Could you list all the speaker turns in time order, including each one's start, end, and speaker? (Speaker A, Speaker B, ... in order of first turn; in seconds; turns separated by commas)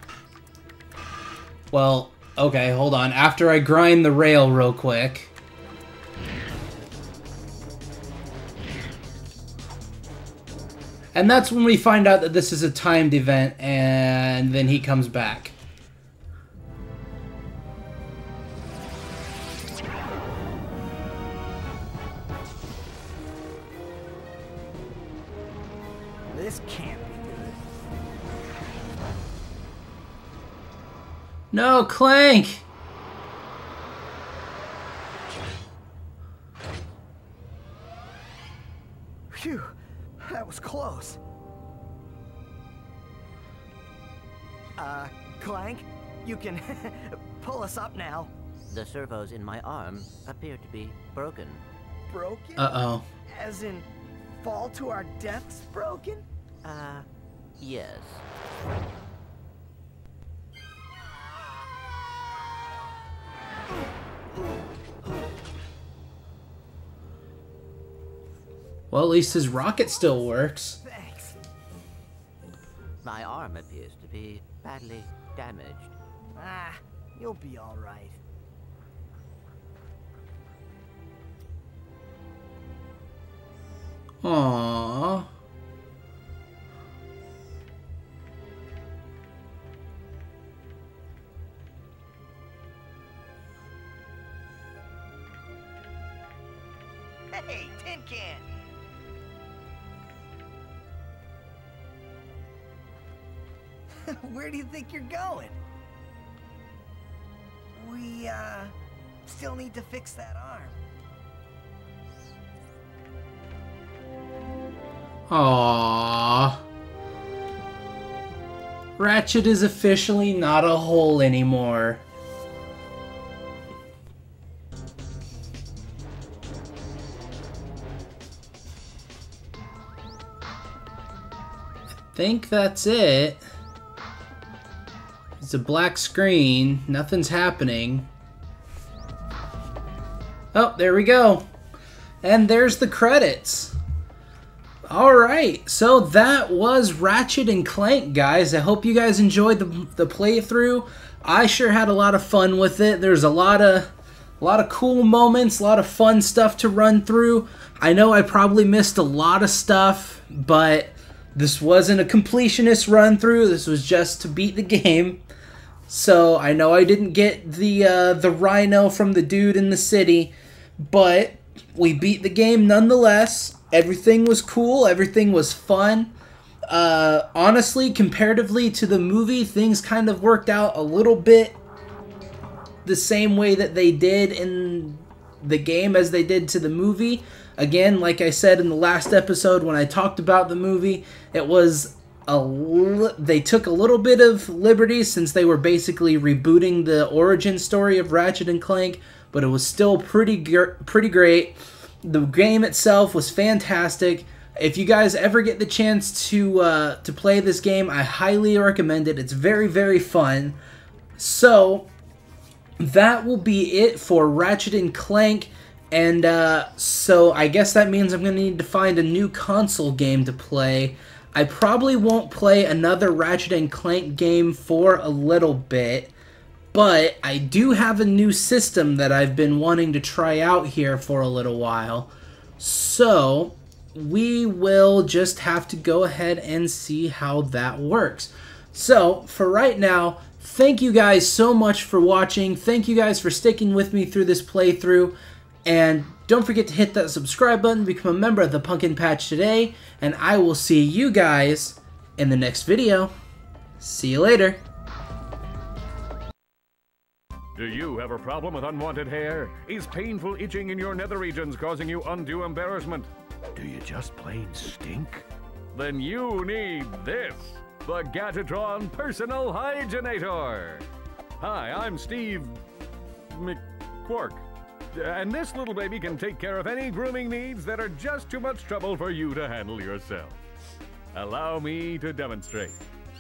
Speaker A: 1.7-5.3, Speaker A: 11.2-15.6, Speaker B: 26.3-27.6, Speaker A: 31.5-32.6, Speaker B: 39.3-41.2, Speaker B: 44.8-48.3, Speaker C: 48.7-51.6, Speaker B: 52.1-56.2, Speaker A: 52.6-53.1, Speaker C: 56.6-57.0, Speaker C: 57.6-58.2, Speaker A: 68.9-70.8, Speaker B: 70.8-71.4, Speaker C: 73.0-75.9, Speaker B: 76.3-78.2, Speaker A: 84.2-85.3, Speaker B: 97.3-98.5, Speaker B: 104.0-105.6, Speaker B: 107.8-108.7, Speaker B: 109.3-110.8, Speaker A: 115.3-116.6, Speaker A: 119.0-122.0, Speaker A: 132.0-133.4, Speaker A: 135.4-138.1, Speaker A: 140.5-141.4, Speaker A: 142.2-143.8, Speaker A: 144.9-165.2, Speaker A: 165.9-176.1, Speaker A: 176.7-181.6, Speaker A: 182.8-210.6, Speaker A: 211.2-211.9, Speaker A: 212.8-226.1, Speaker A: 226.7-253.1, Speaker A: 253.8-254.6, Speaker D: 257.6-270.9, Speaker D: 271.4-272.6, Speaker D: 273.3-274.4, Speaker D: 274.9-280.4, Speaker D: 281.1-282.8